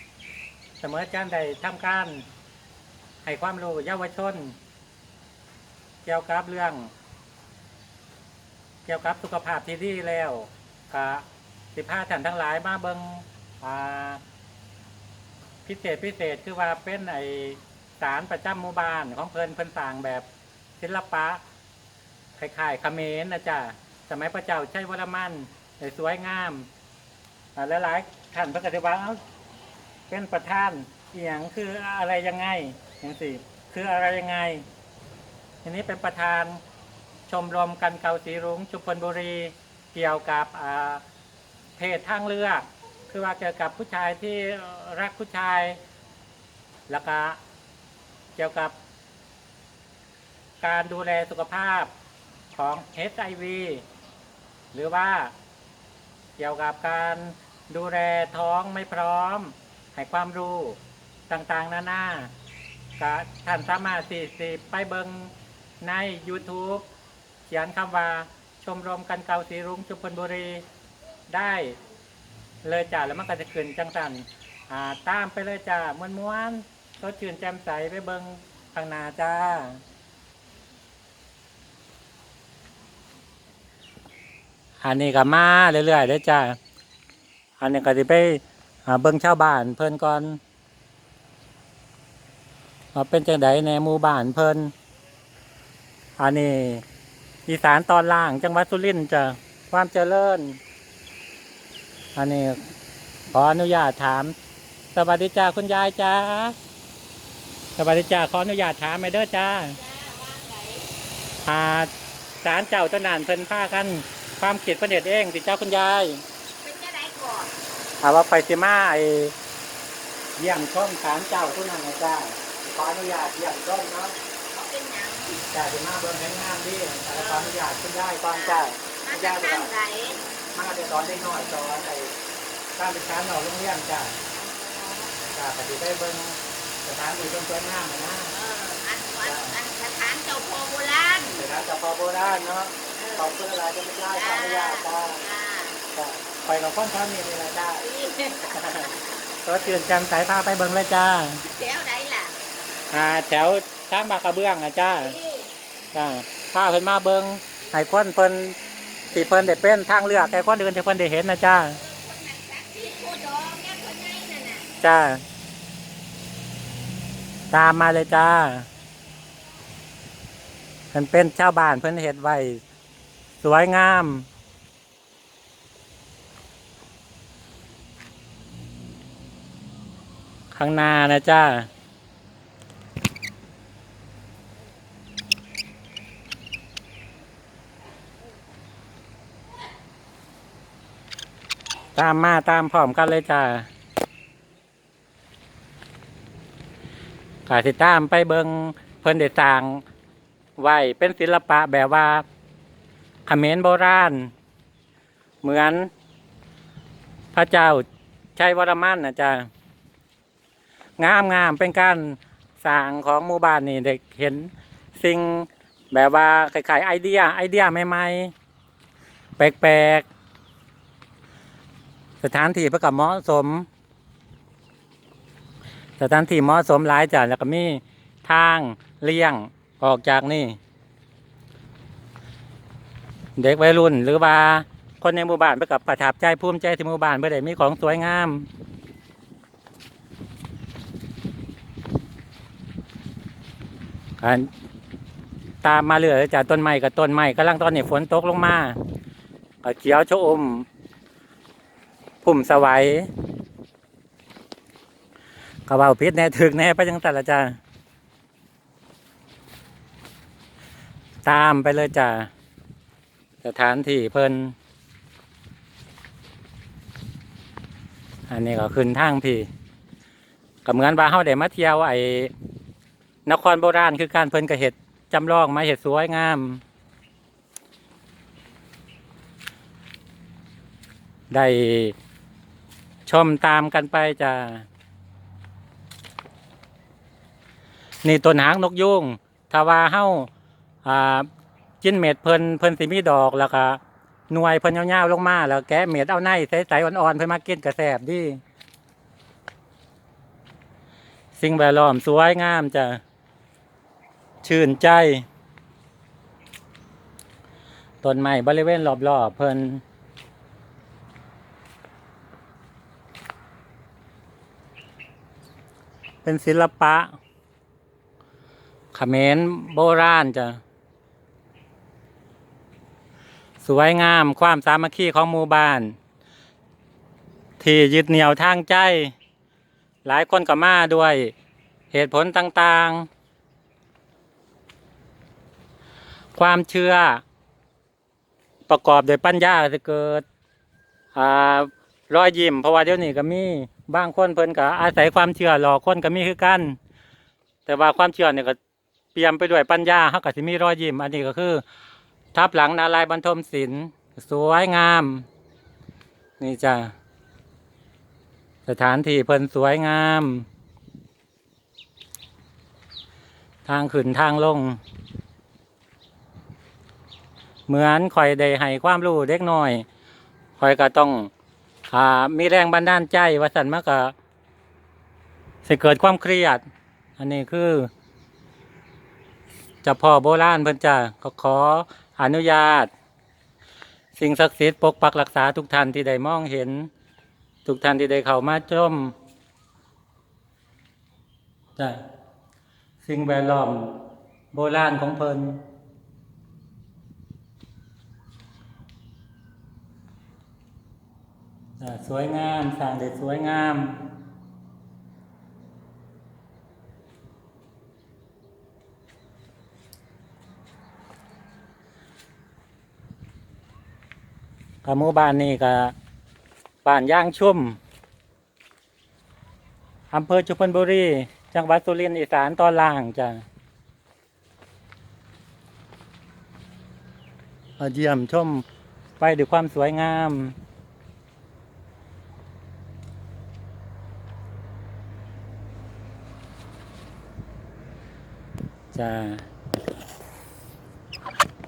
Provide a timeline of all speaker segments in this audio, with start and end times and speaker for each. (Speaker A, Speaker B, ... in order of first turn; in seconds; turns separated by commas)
Speaker A: 0.8-2.3, Speaker A: 3.2-4.6, Speaker A: 6.0-6.9, Speaker A: 8.8-14.2, Speaker A: 15.7-20.3, Speaker A: 20.8-21.4, Speaker A: 22.4-26.7, Speaker A: 27.6-29.2, Speaker A: 30.1-34.6, Speaker A: 35.6-36.6, Speaker A: 37.3-41.0, Speaker A: 41.8-45.8, Speaker A: 46.9-47.4, Speaker A: 48.4-48.8, Speaker A: 50.6-51.9, Speaker A: 52.5-53.8, Speaker A: 54.7-55.3, Speaker A: 56.4-62.3, Speaker A: 63.0-66.8, Speaker A: 67.5-70.7, Speaker A: 71.3-71.8, Speaker A: 72.6-79.8, Speaker A: 84.8-86.6, Speaker A: 87.6-90.4, Speaker A: 92.9-94.7, Speaker A: 96.2-96.8, Speaker A: 97.5-100.6, Speaker A: 102.2-102.6, Speaker A: 103.3-104.3, Speaker A: 104.9-106.6, Speaker A: 107.8-109.8, Speaker B: 109.7-110.9, Speaker A: 111.5-111.9, Speaker A: 112.4-116.2, Speaker B: 116.6-117.5, Speaker A: 118.0-119.3, Speaker A: 120.4-124.2, Speaker B: 124.5-125.4, Speaker A: 125.5-129.7, Speaker B: 127.1-127.6, Speaker B: 128.3-130.2, Speaker A: 130.6-132.1, Speaker A: 132.8-134.2, Speaker B: 134.4-135.2, Speaker A: 135.3-138.3, Speaker B: 138.3-141.4, Speaker A: 139.2-139.6, Speaker A: 141.2-145.2, Speaker B: 143.0-143.3, Speaker B: 144.1-145.8, Speaker A: 145.9-147.8, Speaker B: 147.8-149.1, Speaker A: 148.5-148.9, Speaker A: 149.4-151.4, Speaker B: 151.4-152.4, Speaker A: 152.9-155.2, Speaker B: 155.0-155.5, Speaker A: 155.9-158.6, Speaker A: 159.1-161.8, Speaker B: 161.8-164.7, Speaker A: 164.8-165.2, Speaker A: 167.5-168.7, Speaker A: 170.9-172.6, Speaker A: 173.4-174.3, Speaker A: 180.5-181.7, Speaker A: 191.9-193.7, Speaker A: 197.5-199.8, Speaker A: 200.6-202.3, Speaker A: 203.3-204.3, Speaker A: 205.4-205.9, Speaker A: 207.3-207.8, Speaker A: 208.4-209.5, Speaker A: 211.0-218.3, Speaker A: 219.4-220.1, Speaker A: 222.2-223.7, Speaker A: 226.0-230.6, Speaker A: 233.4-238.5, Speaker A: 244.2-244.5, Speaker A: 245.6-248.8, Speaker A: 249.6-250.7, Speaker A: 252.2-253.1, Speaker A: 255.7-257.6, Speaker A: 261.2-262.3, Speaker A: 263.4-264.6, Speaker A: 268.3-269.5, Speaker A: 270.6-272.3, Speaker A: 273.3-276.6, Speaker A: 281.3-281.9, Speaker A: 283.1-284.7, Speaker A: 288.0-290.3, Speaker A: 290.9-291.3, Speaker A: 291.8-298.4, Speaker A: 301.4-303.0, Speaker A: 304.4-305.3, Speaker A: 308.0-309.8, Speaker A: 316.2-317.1, Speaker A: 318.9-320.6, Speaker A: 323.6-325.9, Speaker A: 327.6-329.1, Speaker A: 330.1-331.3, Speaker A: 331.9-333.1, Speaker A: 336.4-337.2, Speaker A: 338.7-340.2, Speaker A: 341.1-346.8, Speaker A: 347.7-348.6, Speaker A: 349.1-351.6, Speaker A: 352.3-355.3, Speaker A: 356.4-356.9, Speaker A: 358.7-360.5, Speaker A: 363.7-364.8, Speaker A: 367.7-369.9, Speaker A: 370.6-371.3, Speaker A: 371.9-374.1, Speaker A: 375.6-376.6, Speaker A: 377.2-377.9, Speaker A: 379.8-382.9, Speaker A: 384.1-386.9, Speaker A: 387.6-389.1, Speaker A: 391.8-392.0, Speaker A: 393.0-395.6, Speaker A: 401.8-404.0, Speaker A: 414.9-415.9, Speaker A: 416.9-417.8, Speaker A: 420.1-423.4, Speaker A: 427.8-428.7, Speaker A: 429.2-430.6, Speaker A: 438.9-439.5